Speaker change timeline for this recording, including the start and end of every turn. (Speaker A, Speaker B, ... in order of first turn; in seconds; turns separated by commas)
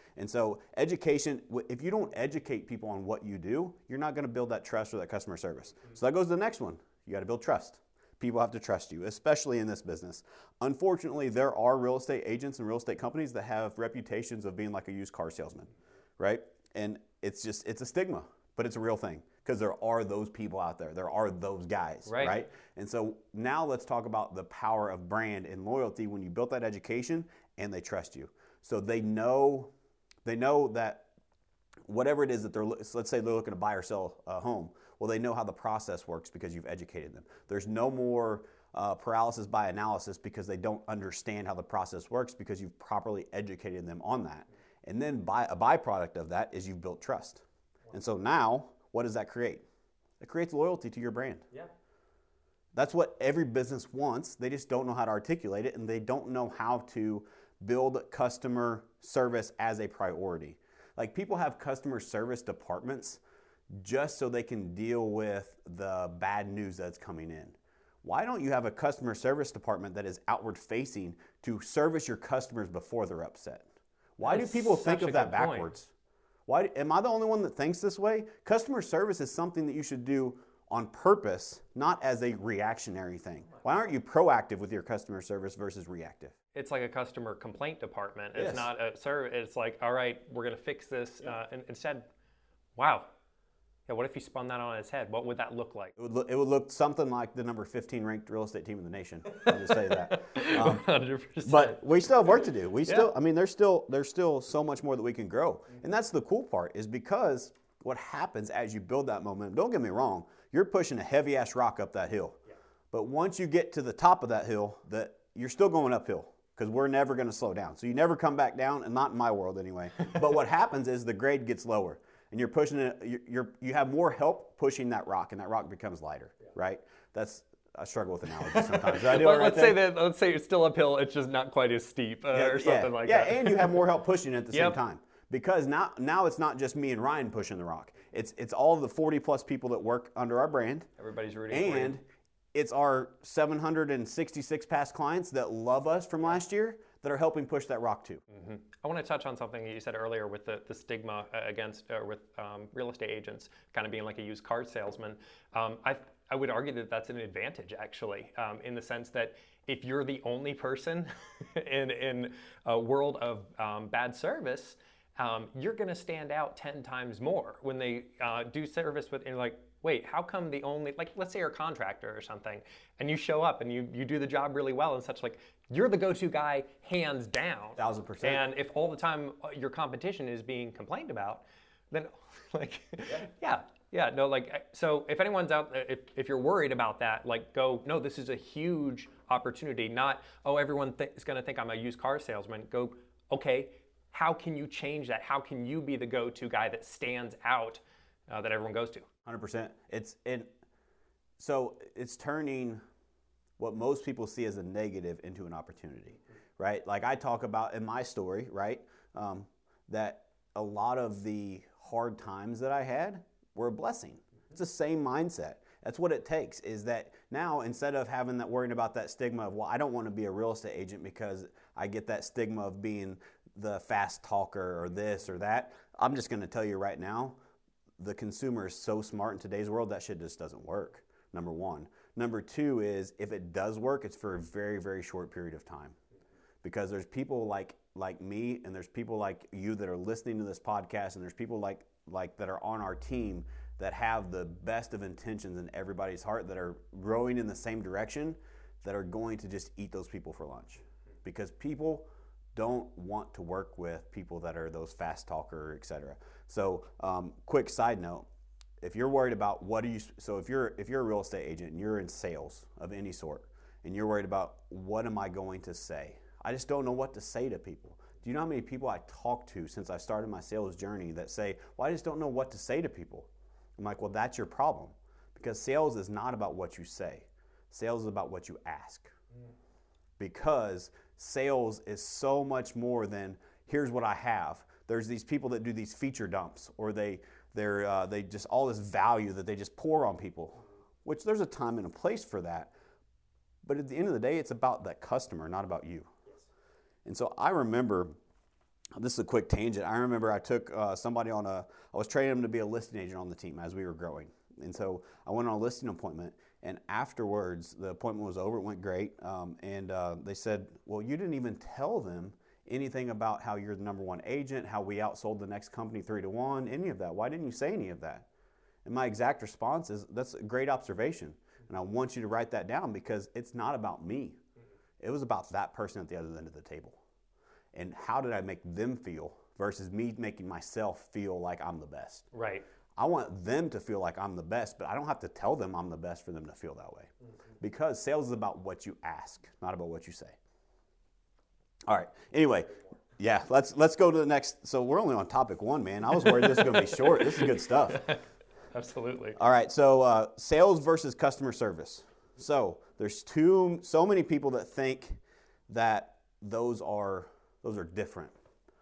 Speaker A: 0.1-29.7, Speaker B: 22.1-22.4, Speaker A: 30.2-31.1, Speaker A: 31.9-49.6, Speaker A: 50.2-51.4, Speaker A: 52.7-63.2, Speaker A: 63.7-73.7, Speaker A: 74.2-75.9, Speaker B: 74.2-75.7, Speaker A: 76.5-86.3, Speaker B: 86.5-92.1, Speaker A: 88.3-88.7, Speaker B: 92.8-93.1, Speaker B: 93.9-95.9, Speaker A: 96.0-112.4, Speaker B: 99.4-101.8, Speaker A: 112.9-129.8, Speaker B: 128.4-133.8, Speaker A: 132.3-140.9, Speaker B: 134.5-134.8, Speaker B: 141.0-141.9, Speaker A: 141.5-148.2, Speaker B: 148.3-199.1, Speaker A: 177.8-178.4, Speaker A: 199.2-200.5, Speaker A: 201.4-202.8, Speaker A: 203.6-227.4, Speaker A: 228.0-236.0, Speaker A: 236.6-258.2, Speaker A: 258.8-279.1, Speaker A: 280.2-292.7, Speaker A: 293.6-296.1, Speaker A: 297.0-298.1, Speaker A: 299.0-318.2, Speaker A: 318.8-324.4, Speaker A: 325.0-327.0, Speaker A: 327.7-332.3, Speaker B: 332.3-332.6, Speaker A: 333.0-337.1, Speaker A: 337.6-340.4, Speaker A: 341.9-348.1, Speaker B: 346.2-348.2, Speaker B: 348.7-349.4, Speaker A: 349.4-358.3